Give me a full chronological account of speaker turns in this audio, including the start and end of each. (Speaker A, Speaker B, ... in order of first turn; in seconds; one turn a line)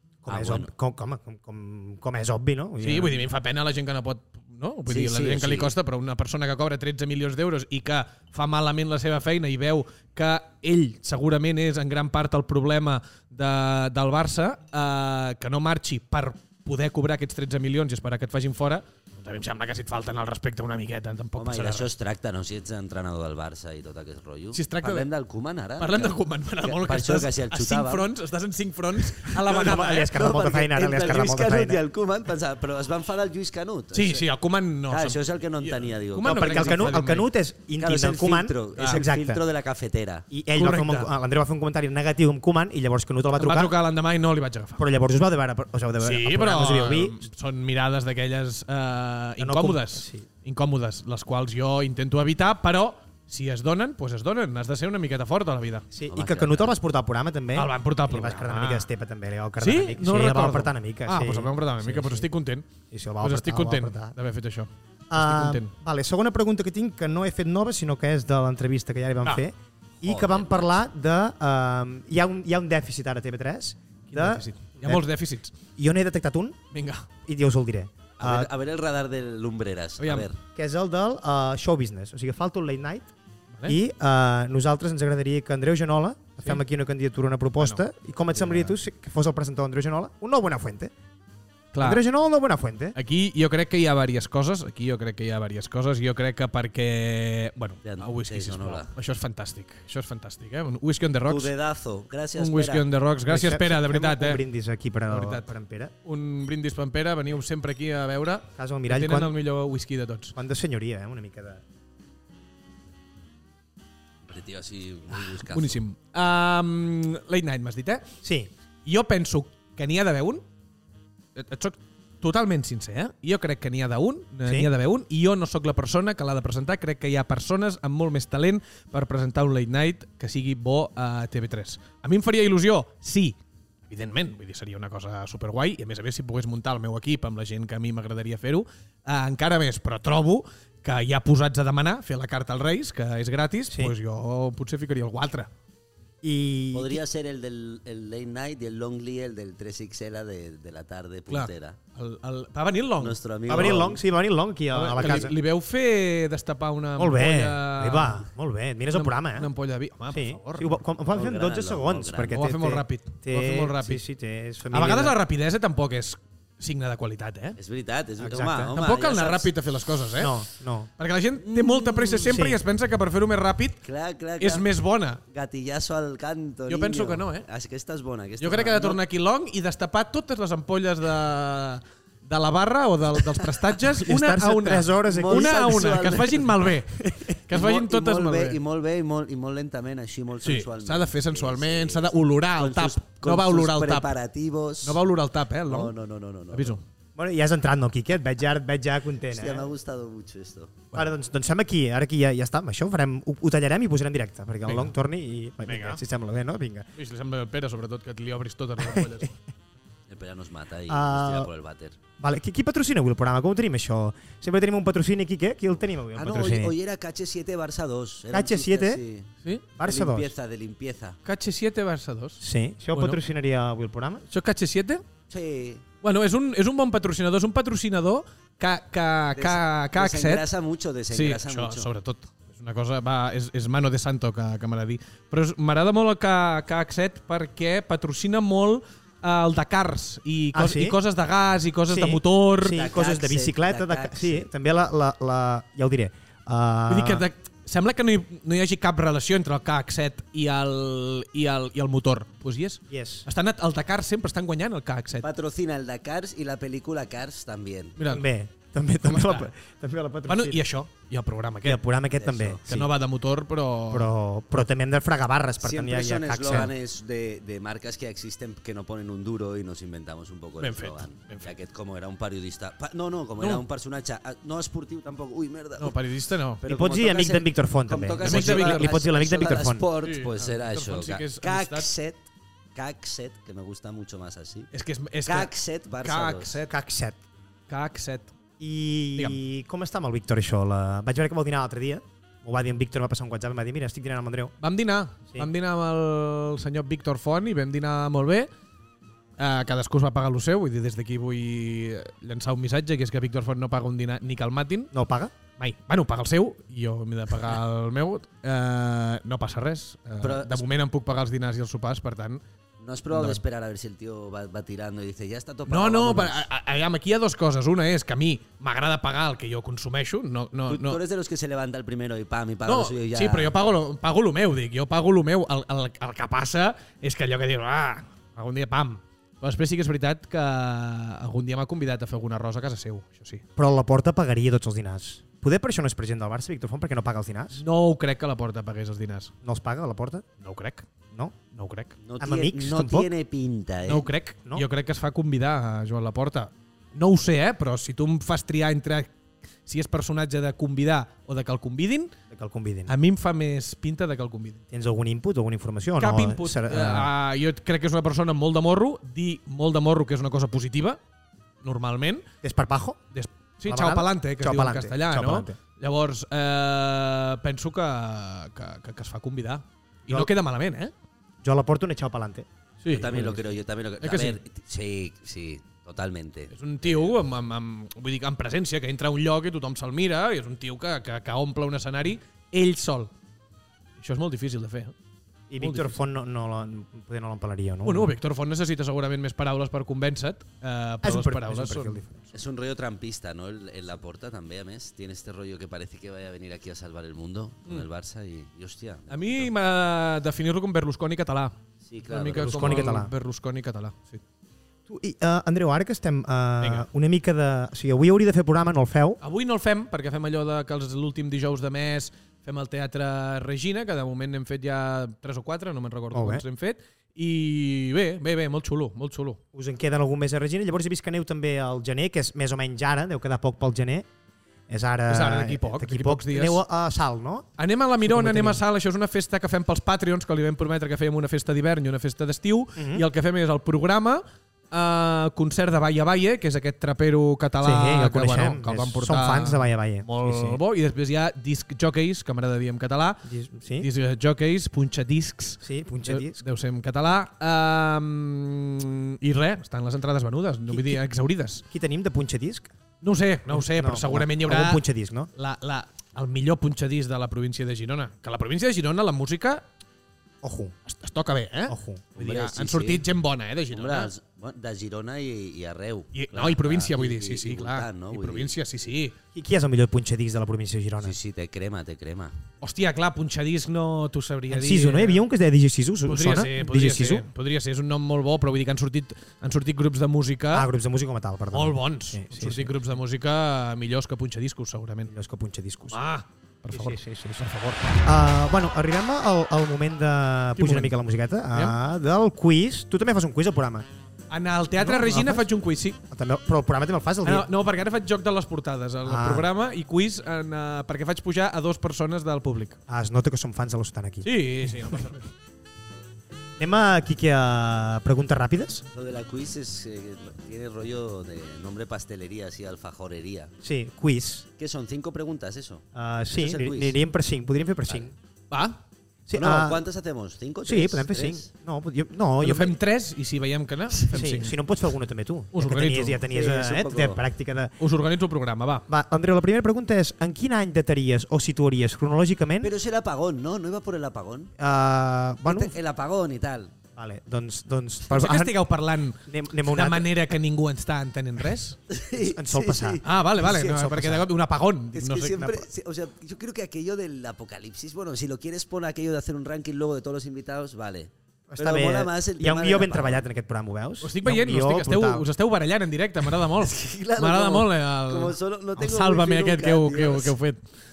Speaker A: 0.2-3.2
Speaker B: 0.3-0.7
Speaker C: 2.8-21.9
Speaker B: 4.9-5.8
Speaker B: 21.4-28.1
Speaker C: 24.5-25.1
Speaker C: 25.8-30.1
Speaker A: 29.4-31.8
Speaker B: 30.0-34.2
Speaker C: 33.9-37.3
Speaker B: 34.9-37.0
Speaker A: 36.2-39.4
Speaker B: 37.8-40.2
Speaker C: 38.8-39.0
Speaker A: 40.3-43.8
Speaker C: 40.5-41.1
Speaker C: 43.4-44.8
Speaker A: 44.8-47.2
Speaker C: 46.0-55.9
Speaker A: 49.4-50.3
Speaker A: 55.9-62.3
Speaker B: 56.1-56.8
Speaker C: 57.5-58.9
Speaker C: 59.6-62.7
Speaker A: 62.9-64.2
Speaker C: 63.2-65.7
Speaker A: 65.1-75.0
Speaker B: 70.0-70.8
Speaker C: 74.1-75.5
Speaker A: 75.8-76.6
Speaker C: 76.7-77.1
Speaker A: 77.3-78.5
Speaker B: 78.2-80.4
Speaker C: 80.0-80.3
Speaker A: 80.5-83.1
Speaker A: 83.7-90.9
Speaker C: 91.7-92.0
Speaker A: 91.8-93.0
Speaker C: 93.0-101.5
Speaker B: 97.8-98.9
Speaker B: 101.3-102.9
Speaker C: 102.3-104.4
Speaker A: 103.3-105.9
Speaker C: 105.1-105.5
Speaker C: 106.0-110.3
Speaker A: 108.6-109.3
Speaker A: 110.3-111.6
Speaker B: 114.3-115.8
Speaker C: 115.5-118.1
Speaker A: 118.2-118.5
Speaker C: 118.8-120.4
Speaker C: 121.3-145.5
Speaker A: 146.2-147.0
Speaker B: 146.7-151.8
Speaker C: 151.3-153.8
Speaker B: 153.0-154.0
Speaker A: 153.5-155.3
Speaker C: 154.7-158.2
Speaker A: 157.0-159.5
Speaker C: 158.9-160.8
Speaker A: 160.1-165.2
Speaker B: 161.1-162.4
Speaker C: 162.3-164.0
Speaker C: 164.7-167.6
Speaker B: 167.6-169.5
Speaker A: 168.2-168.7
Speaker C: 168.7-170.4
Speaker A: 170.2-170.9
Speaker C: 171.0-173.8
Speaker B: 171.4-172.4
Speaker A: 172.3-172.6
Speaker B: 173.8-174.7
Speaker C: 174.4-175.2
Speaker B: 175.3-179.0
Speaker C: 176.7-177.5
Speaker C: 178.4-188.6
Speaker A: 184.0-185.7
Speaker B: 185.0-186.6
Speaker A: 187.0-187.3
Speaker B: 187.5-195.0
Speaker C: 190.4-194.1
Speaker C: 194.8-195.9
Speaker B: 195.7-196.8
Speaker C: 196.5-196.8
Speaker A: 197.2-199.7
Speaker B: 199.3-200.8
Speaker A: 200.9-206.9
Speaker C: 204.7-204.9
Speaker C: 205.7-206.0
Speaker C: 206.9-209.3
Speaker A: 208.8-209.2
Speaker B: 210.1-212.0
Speaker A: 210.9-211.5
Speaker A: 212.2-216.7
Speaker B: 216.2-219.3
Speaker A: 218.3-219.0
Speaker A: 219.8-220.3
Speaker B: 219.8-221.2
Speaker C: 221.2-222.4
Speaker A: 222.4-224.2
Speaker C: 222.9-223.2
Speaker C: 224.3-225.0
Speaker B: 225.3-225.8
Speaker C: 226.0-230.5
Speaker B: 229.4-231.9
Speaker C: 231.1-242.8
Speaker A: 240.5-241.0
Speaker A: 241.9-247.3
Speaker B: 242.7-244.5
Speaker C: 246.9-255.3
Speaker A: 252.9-253.3
Speaker B: 255.2-258.0
Speaker C: 258.0-258.2
Speaker A: 258.1-260.6
Speaker C: 259.1-259.5
Speaker C: 260.3-261.8
Speaker A: 261.6-262.9
Speaker B: 262.2-262.6
Speaker C: 262.7-264.1
Speaker A: 263.9-266.7
Speaker B: 265.6-276.0
Speaker C: 270.6-271.5
Speaker C: 275.8-276.6
Speaker B: 276.6-282.2
Speaker A: 276.7-279.8
Speaker C: 278.2-278.9
Speaker C: 280.0-281.9
Speaker B: 282.8-284.7
Speaker C: 284.7-285.5
Speaker B: 285.3-286.6
Speaker C: 286.0-286.7
Speaker A: 286.7-287.2
Speaker C: 287.7-288.3
Speaker A: 288.6-294.5
Speaker C: 294.6-298.5
Speaker C: 299.4-304.9
Speaker A: 304.9-305.3
Speaker C: 305.6-312.4
Speaker B: 310.2-310.6
Speaker B: 312.8-316.5
Speaker C: 313.1-313.4
Speaker C: 315.7-321.0
Speaker B: 320.7-323.6
Speaker C: 322.7-333.4
Speaker A: 333.6-337.6
Speaker C: 337.6-339.3
Speaker A: 339.4-340.2
Speaker C: 340.4-340.9
Speaker A: 341.1-341.4
Speaker C: 341.5-341.9
Speaker B: 342.0-344.1
Speaker A: 342.2-343.1
Speaker C: 343.9-349.1
Speaker C: 349.7-352.1
Speaker A: 352.3-352.9
Speaker C: 352.9-354.6
Speaker A: 354.7-357.1
Speaker C: 356.0-361.0
Speaker C: 361.6-362.3
Speaker A: 362.4-363.0
Speaker C: 363.1-370.9
Speaker A: 363.7-365.6
Speaker A: 371.4-372.5
Speaker C: 372.8-373.4
Speaker B: 372.9-376.9
Speaker C: 374.0-374.4
Speaker C: 376.5-383.1
Speaker C: 384.0-384.9
Speaker A: 385.5-388.1
Speaker C: 385.6-386.0
Speaker C: 387.9-392.1
Speaker A: 391.0-392.2
Speaker B: 392.3-399.5
Speaker C: 399.1-401.5
Speaker B: 401.8-402.9
Speaker C: 402.1-404.2
Speaker A: 402.3-403.1
Speaker A: 404.9-409.2
Speaker C: 406.6-406.9
Speaker C: 409.2-419.4
Speaker A: 416.1-416.4
Speaker A: 419.5-424.1
Speaker A: 424.7-427.5
Speaker C: 425.1-426.6
Speaker C: 427.6-443.2
Speaker A: 428.0-428.6
Speaker A: 432.8-433.1
Speaker A: 437.6-440.6
Speaker A: 443.2-443.9
Speaker C: 443.8-451.6
Speaker A: 445.6-446.4
Speaker A: 450.7-451.0
Speaker A: 451.7-452.7
Speaker C: 453.0-454.8
Speaker A: 453.5-455.3
Speaker C: 455.4-459.6
Speaker A: 460.4-460.8
Speaker C: 460.9-464.1
Speaker A: 461.7-462.1
Speaker B: 462.2-463.0
Speaker B: 463.7-468.5
Speaker C: 466.1-469.1
Speaker A: 469.3-471.2
Speaker B: 471.0-472.4
Speaker C: 472.6-475.2
Speaker A: 474.5-477.3
Speaker C: 476.1-480.7
Speaker A: 480.5-482.8
Speaker C: 481.5-485.1
Speaker A: 485.1-486.0
Speaker C: 485.9-488.2
Speaker A: 486.7-487.4
Speaker A: 488.1-493.9
Speaker C: 490.6-490.9
Speaker C: 494.3-496.0
Speaker A: 494.8-495.5
Speaker A: 496.1-497.5
Speaker C: 497.2-502.8
Speaker A: 499.1-499.5
Speaker A: 502.9-505.0
Speaker C: 504.2-505.2
Speaker A: 506.6-508.8
Speaker B: 508.9-513.5
Speaker A: 513.6-514.5
Speaker B: 514.6-517.0
Speaker A: 515.9-518.1
Speaker C: 518.5-518.8
Speaker A: 519.3-519.8
Speaker B: 519.3-521.5
Speaker A: 520.7-522.8
Speaker C: 522.4-524.5
Speaker A: 524.1-527.7
Speaker C: 525.5-526.2
Speaker B: 526.3-527.2
Speaker C: 527.8-528.9
Speaker A: 528.9-532.7
Speaker B: 532.6-534.5
Speaker A: 534.6-535.8
Speaker B: 535.5-536.7
Speaker A: 537.0-538.5
Speaker C: 538.1-541.8
Speaker A: 539.3-540.1
Speaker B: 541.9-543.8
Speaker A: 542.2-544.3
Speaker C: 543.0-545.5
Speaker B: 544.9-553.3
Speaker A: 551.5-555.3
Speaker C: 554.0-560.6
Speaker B: 556.6-560.4